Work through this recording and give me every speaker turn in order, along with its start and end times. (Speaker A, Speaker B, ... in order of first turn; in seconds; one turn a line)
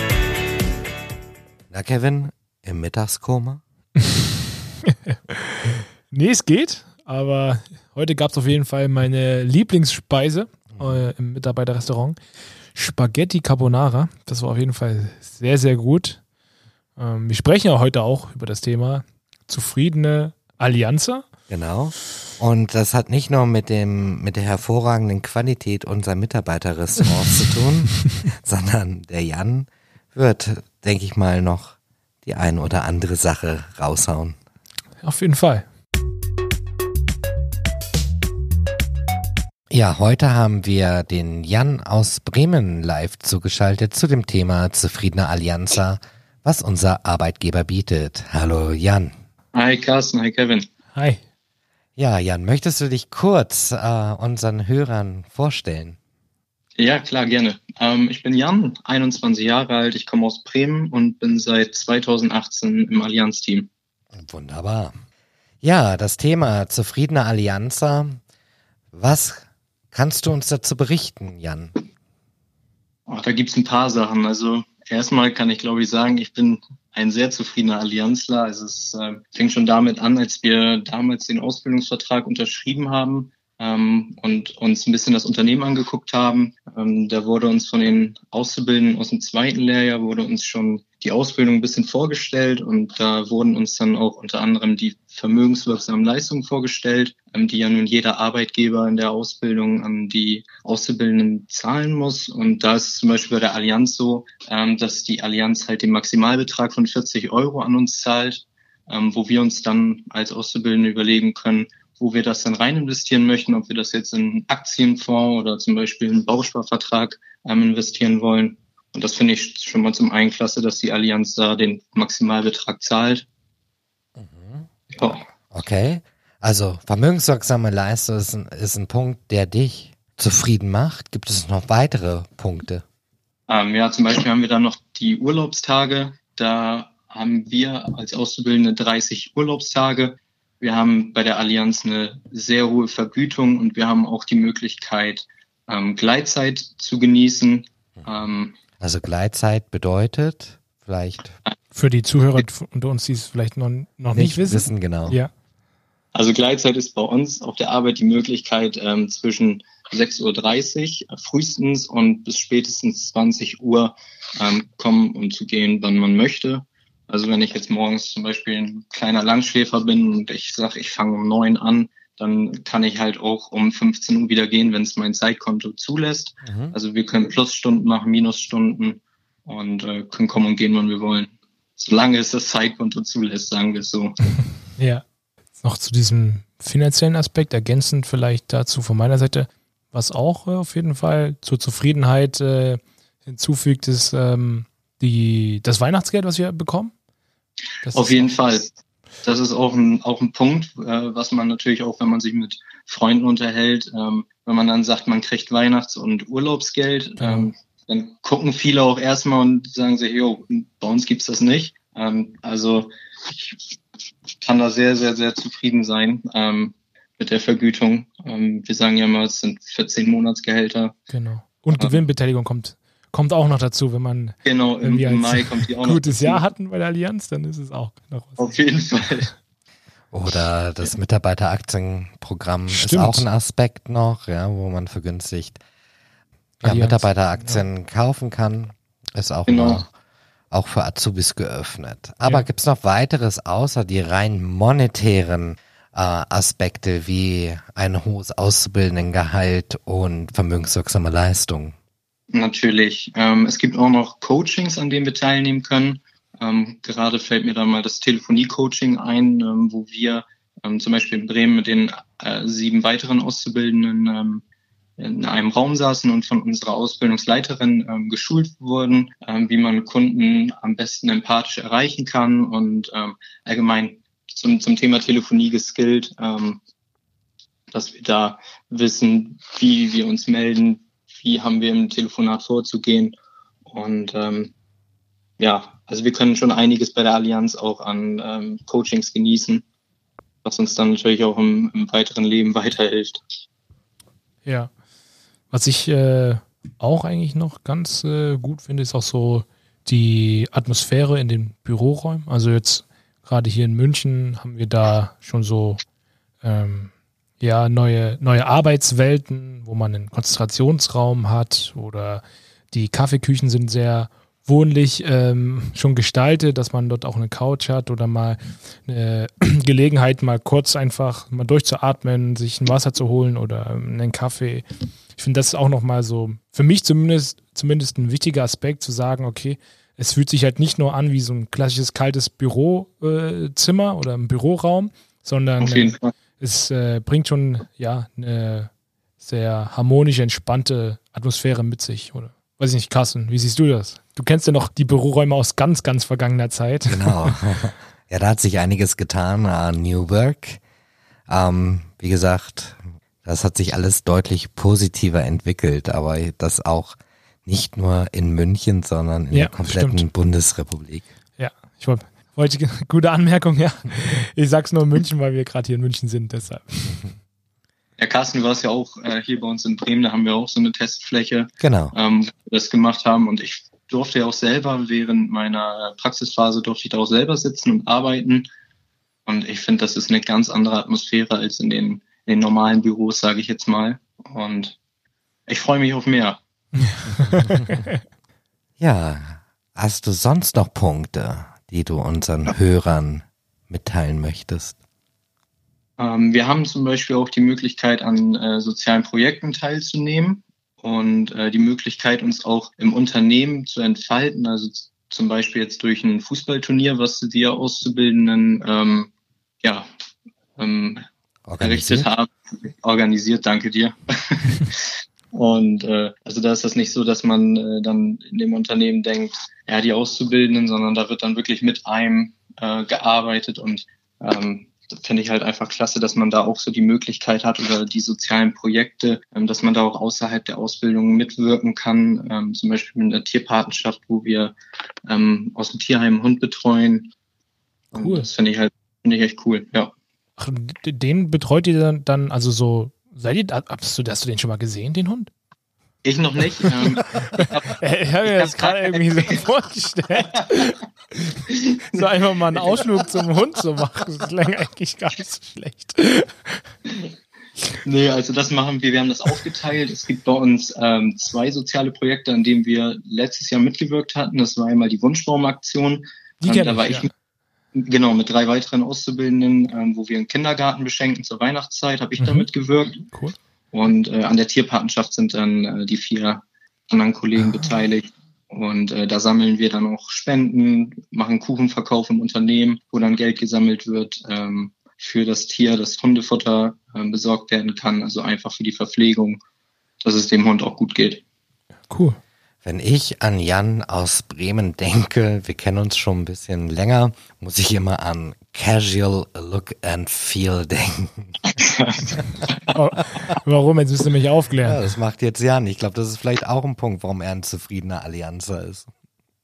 Speaker A: 1.7-3.6
Speaker B: 4.8-12.2
Speaker A: 10.8-11.1
Speaker B: 12.7-16.2
Speaker B: 17.0-21.3
Speaker A: 21.5-34.4
Speaker B: 35.0-35.6
Speaker A: 39.7-49.1
Speaker C: 49.5-50.7
Speaker B: 51.0-51.2
Speaker A: 52.0-56.0
Speaker C: 56.8-63.7
Speaker A: 64.1-65.0
Speaker A: 65.6-68.2
Speaker A: 68.9-71.8
Speaker C: 73.1-123.2
Speaker A: 124.2-132.8
Speaker C: 124.9-125.2
Speaker C: 133.5-148.6
Speaker A: 148.8-151.4
Speaker B: 151.7-155.3
Speaker A: 154.1-155.2
Speaker C: 156.2-184.2
Speaker A: 176.4-176.8
Speaker B: 184.8-185.0
Speaker B: 185.6-196.9
Speaker B: 197.8-198.4
Speaker C: 197.9-198.7
Speaker C: 199.2-213.6
Speaker B: 207.2-207.5
Speaker C: 214.4-220.9
Speaker B: 221.1-228.6
Speaker C: 221.8-222.0
Speaker C: 224.4-226.4
Speaker C: 228.4-229.3
Speaker A: 230.1-235.6
Speaker B: 232.7-233.3
Speaker A: 236.6-239.9
Speaker B: 236.6-237.6
Speaker C: 239.5-239.8
Speaker A: 240.5-251.8
Speaker C: 252.3-264.4
Speaker C: 265.0-276.6
Speaker C: 277.7-283.1
Speaker C: 283.7-284.5
Speaker C: 285.4-289.6
Speaker C: 290.4-293.2
Speaker B: 294.4-294.7
Speaker B: 295.5-305.8
Speaker B: 306.4-347.4
Speaker C: 335.6-336.1
Speaker A: 346.9-350.6
Speaker A: 351.3-361.1
Speaker B: 359.3-360.1
Speaker B: 361.4-367.1
Speaker C: 368.0-378.5
Speaker A: 371.6-371.9
Speaker C: 379.3-384.8
Speaker C: 385.5-386.4
Speaker B: 386.8-388.0
Speaker A: 388.8-394.8
Speaker C: 396.0-409.1
Speaker C: 410.6-411.0
Speaker A: 411.5-412.1
Speaker C: 411.6-414.8
Speaker C: 415.3-434.6
Speaker C: 435.1-437.1
Speaker B: 437.9-438.3
Speaker C: 437.9-439.9
Speaker B: 440.4-445.3
Speaker C: 446.0-449.4
Speaker B: 446.7-456.6
Speaker C: 451.8-452.8
Speaker C: 457.9-467.1
Speaker B: 466.4-467.1
Speaker C: 467.8-473.0
Speaker B: 472.2-472.5
Speaker B: 473.1-473.4
Speaker C: 473.7-489.4
Speaker B: 477.4-477.8
Speaker C: 490.0-491.2
Speaker B: 491.9-492.2
Speaker A: 492.6-501.3
Speaker C: 501.5-502.7
Speaker B: 502.7-504.8
Speaker A: 504.6-508.9